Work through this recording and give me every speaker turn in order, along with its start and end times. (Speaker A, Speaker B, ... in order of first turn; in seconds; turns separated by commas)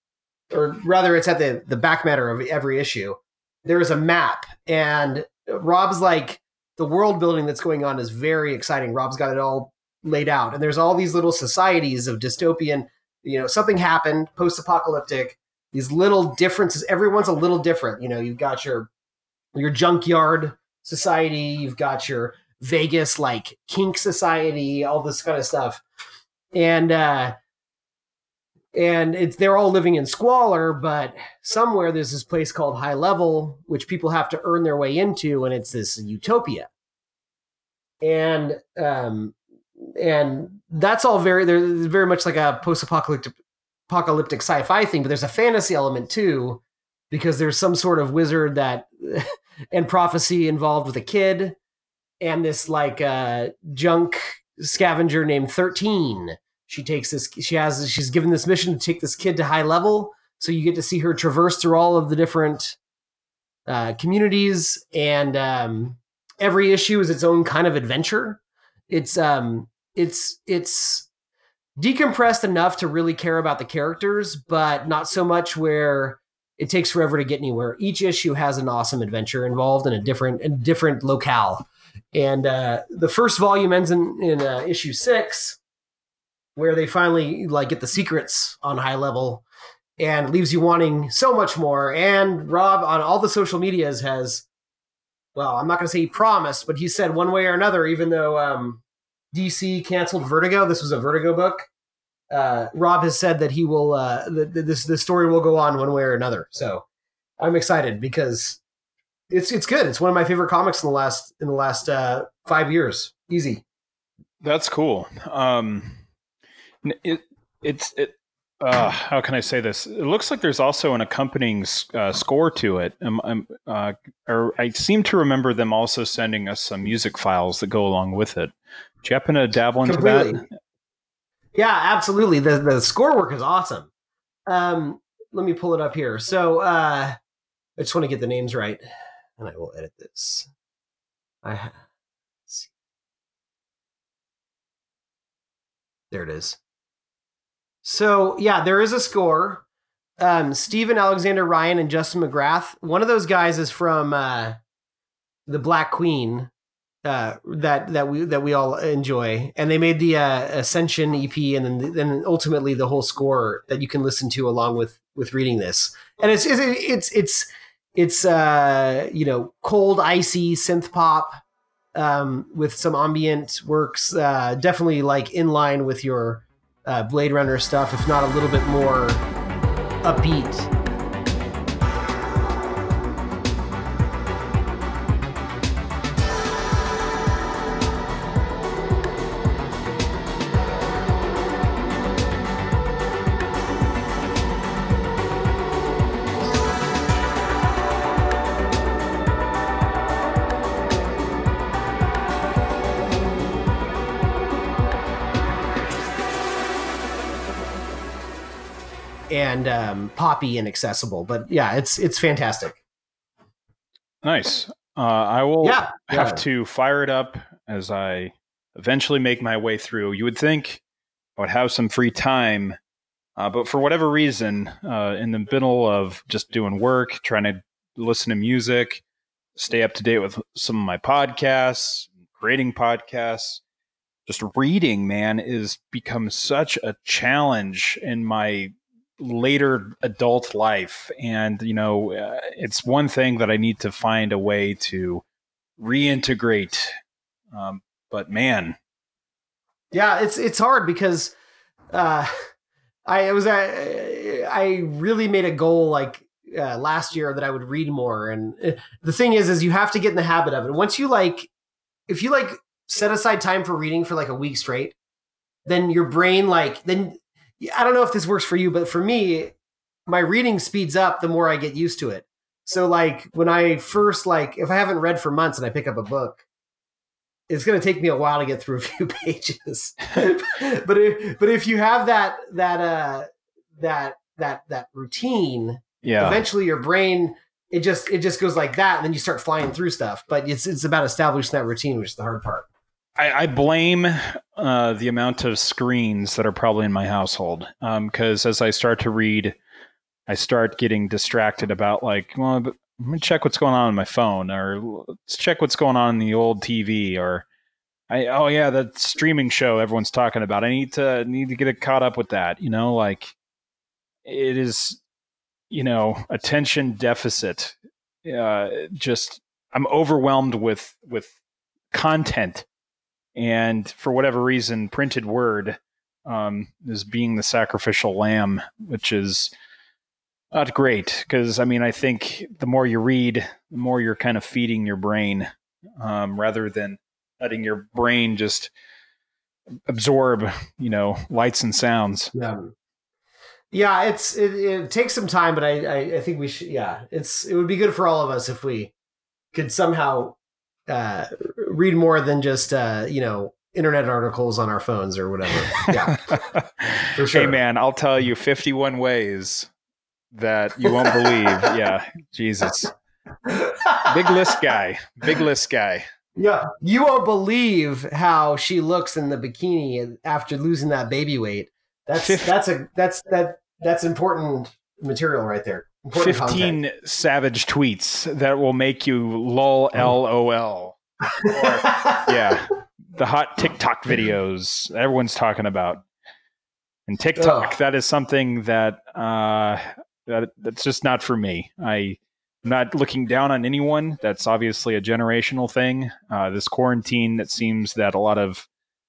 Speaker A: 0.5-18.9, Speaker A: 19.5-25.8, Speaker A: 26.5-27.4, Speaker A: 28.7-36.7, Speaker A: 38.0-43.4, Speaker A: 43.9-51.6, Speaker A: 52.2-62.8, Speaker A: 63.7-71.1, Speaker A: 71.8-85.6, Speaker A: 86.6-89.4, Speaker A: 90.0-94.5, Speaker A: 95.3-101.7, Speaker A: 102.3-106.8, Speaker A: 107.4-108.6, Speaker A: 109.3-113.6, Speaker B: 114.4-116.0, Speaker B: 116.8-130.4, Speaker A: 129.8-130.4, Speaker A: 131.5-133.9, Speaker A: 134.5-137.2, Speaker A: 137.8-138.8, Speaker A: 139.4-140.5, Speaker A: 141.4-141.8, Speaker A: 146.1-146.6, Speaker A: 147.8-149.6, Speaker A: 150.2-154.6, Speaker A: 155.5-156.5, Speaker A: 157.0-171.4, Speaker A: 171.9-179.2, Speaker A: 180.0-180.7, Speaker A: 209.3-212.8, Speaker B: 214.2-220.8, Speaker A: 215.6-216.4, Speaker B: 221.4-222.8, Speaker B: 223.4-229.0, Speaker B: 229.6-233.6, Speaker B: 234.3-245.2, Speaker B: 245.8-247.0, Speaker B: 247.5-248.8, Speaker A: 249.9-251.3, Speaker A: 251.9-252.3, Speaker A: 253.1-261.5, Speaker A: 262.1-264.9, Speaker A: 265.7-269.5, Speaker A: 270.1-276.4, Speaker A: 277.5-292.7, Speaker B: 286.0-286.4, Speaker B: 293.2-299.6, Speaker B: 300.3-307.5, Speaker B: 308.1-313.4, Speaker B: 314.2-315.0, Speaker B: 315.7-321.4, Speaker B: 321.9-322.7, Speaker B: 323.4-329.5, Speaker B: 330.5-335.5, Speaker B: 336.0-338.7, Speaker B: 339.9-342.3, Speaker A: 342.3-342.7, Speaker A: 343.7-348.9, Speaker A: 349.5-350.4, Speaker A: 350.9-356.2, Speaker B: 355.8-359.7, Speaker A: 357.1-357.6, Speaker B: 360.3-362.9, Speaker A: 360.8-361.7, Speaker A: 363.4-364.4, Speaker B: 364.1-366.1, Speaker A: 366.4-376.8, Speaker B: 372.2-372.5, Speaker B: 376.2-386.0, Speaker A: 381.4-382.5, Speaker B: 387.1-398.7, Speaker A: 387.4-387.7